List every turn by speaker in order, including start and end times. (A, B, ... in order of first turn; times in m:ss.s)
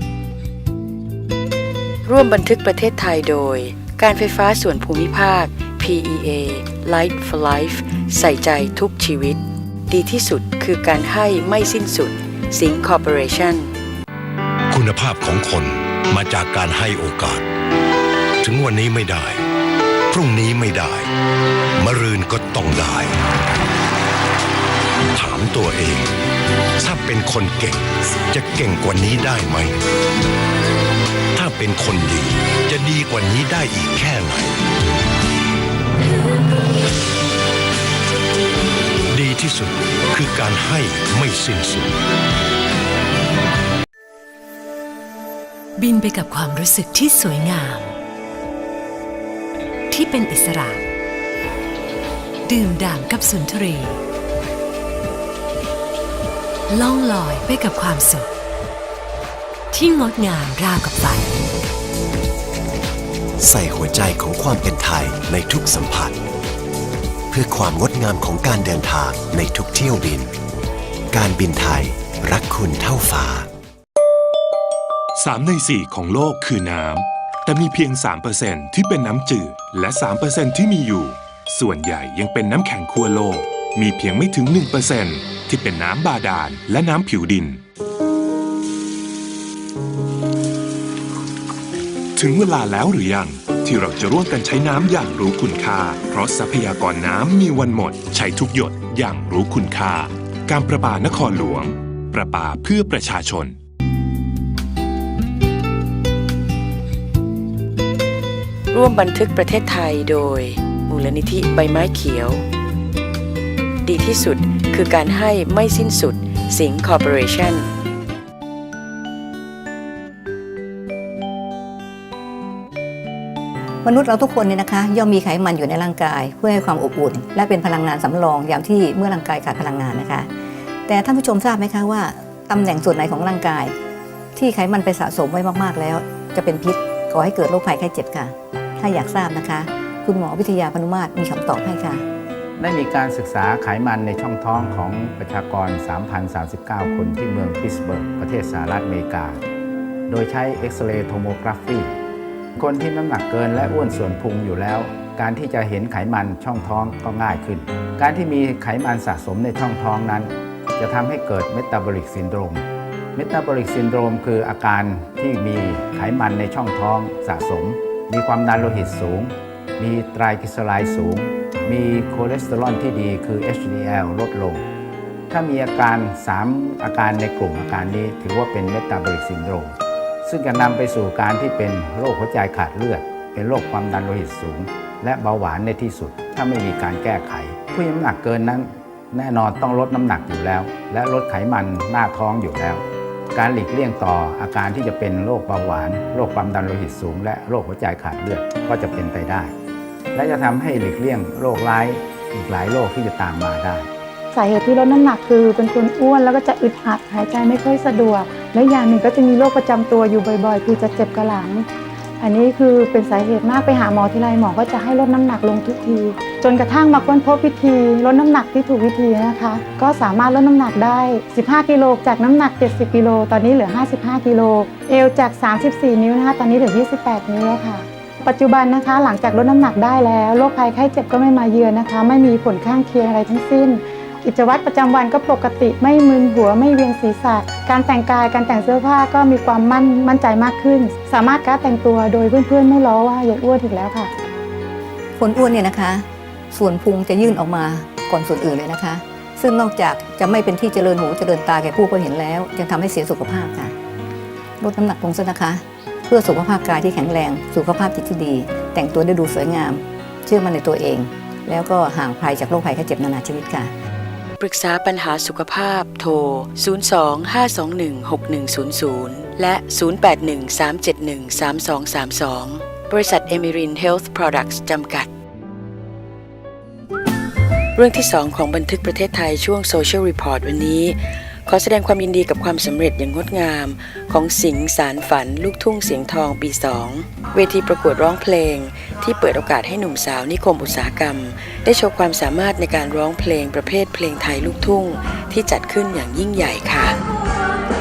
0:02.0-0:13.7 A
0:14.7-0:17.4 B
0:18.4-0:19.4 B
0:20.1-0:21.1 B
0:21.8-0:23.2 B
0:25.1-0:26.1 B
0:26.8-0:29.8 B
0:31.3-0:34.6 B
0:39.1-0:42.0 B
0:45.8-0:47.9 C
0:49.9-0:50.8 C
0:52.4-0:54.0 C
0:56.7-0:58.3 C
0:59.7-1:01.3 C
1:03.4-1:06.2 D
1:07.3-1:10.3 D
1:11.1-1:13.5 D
1:15.2-1:27.6 E
1:32.2-1:43.6 E
1:48.7-1:52.4 A
1:53.8-1:57.7 A
2:03.8-2:10.3 F
2:10.8-2:13.7 F
2:14.4-2:22.0 F
2:22.6-2:29.4 G
2:30.1-2:31.9 G
2:32.6-2:54.6 G
2:55.3-3:19.5 G
3:20.1-3:23.9 G
3:24.3-3:31.6 H
3:32.2-4:04.1 H
4:05.2-4:13.7 F
4:14.6-4:23.7 F
4:24.4-4:35.1 A
4:37.7-4:57.0 A